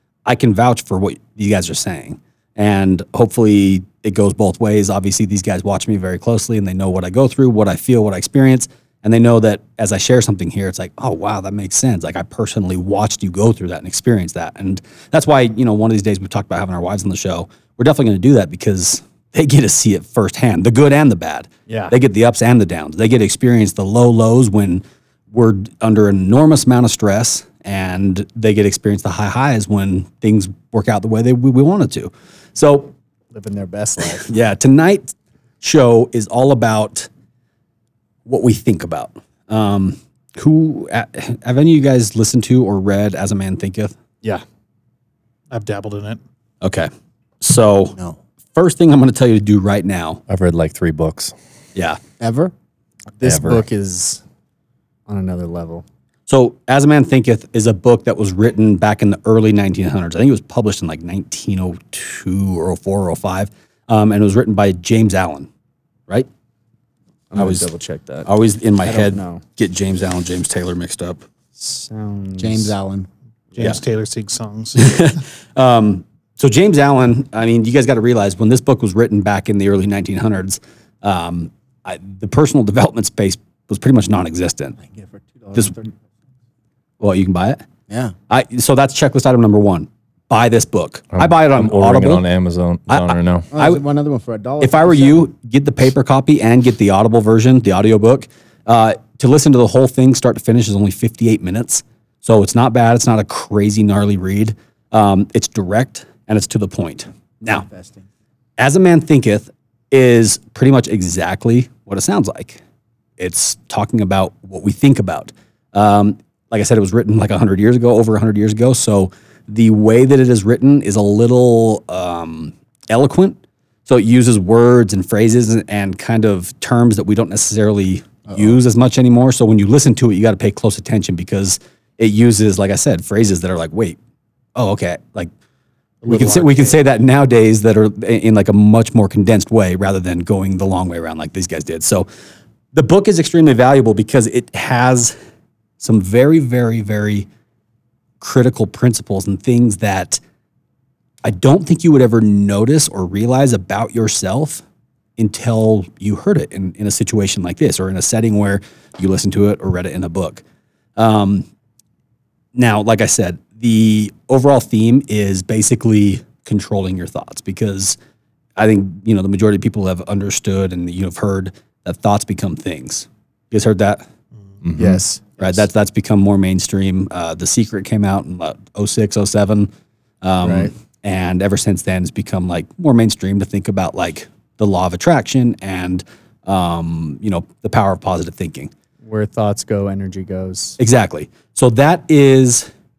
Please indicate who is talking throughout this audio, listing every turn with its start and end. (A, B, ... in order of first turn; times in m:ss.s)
0:00.2-0:32.9 A
0:33.3-0:34.3 B
0:34.2-0:37.1 A
0:38.2-0:43.9 A
0:45.5-0:46.2 C
0:46.6-0:46.9 A
0:47.4-0:48.0 A
0:48.5-0:50.2 A
0:50.3-0:51.3 D
0:51.7-0:52.0 A
0:52.2-0:52.5 E
0:53.2-0:54.2 B
0:53.2-0:53.6 D
0:55.1-0:55.8 B
0:56.3-1:05.5 A
1:07.3-1:08.3 B
1:07.4-1:07.6 A
1:08.2-1:11.2 A
1:08.8-1:09.4 B
1:11.6-1:12.7 B
1:12.4-1:13.1 E
1:13.6-1:15.2 C
1:14.8-1:24.8 A
1:24.8-1:26.0 E
1:27.0-1:27.6 A
1:27.9-1:28.1 E
1:28.3-1:32.2 A
1:31.1-1:33.5 D
1:32.9-1:33.8 A
1:33.5-1:35.3 E
1:34.6-1:47.6 A
1:47.5-1:48.0 E
1:48.6-1:52.6 A
1:53.2-2:14.0 A
2:14.6-2:15.3 A
2:16.0-2:16.7 E
2:16.0-2:22.1 A
2:22.7-2:25.1 A
2:25.8-2:27.3 A
2:28.2-2:30.2 A
2:31.2-2:34.6 A
2:35.2-2:40.4 A
2:41.0-2:41.5 A
2:42.5-2:48.0 A
2:48.6-2:54.0 A
2:54.6-2:55.0 D
2:54.8-2:55.6 B
2:55.4-2:59.7 A
3:00.2-3:08.7 A
3:00.4-3:00.7 B
3:09.0-3:10.8 B
3:10.8-3:12.7 A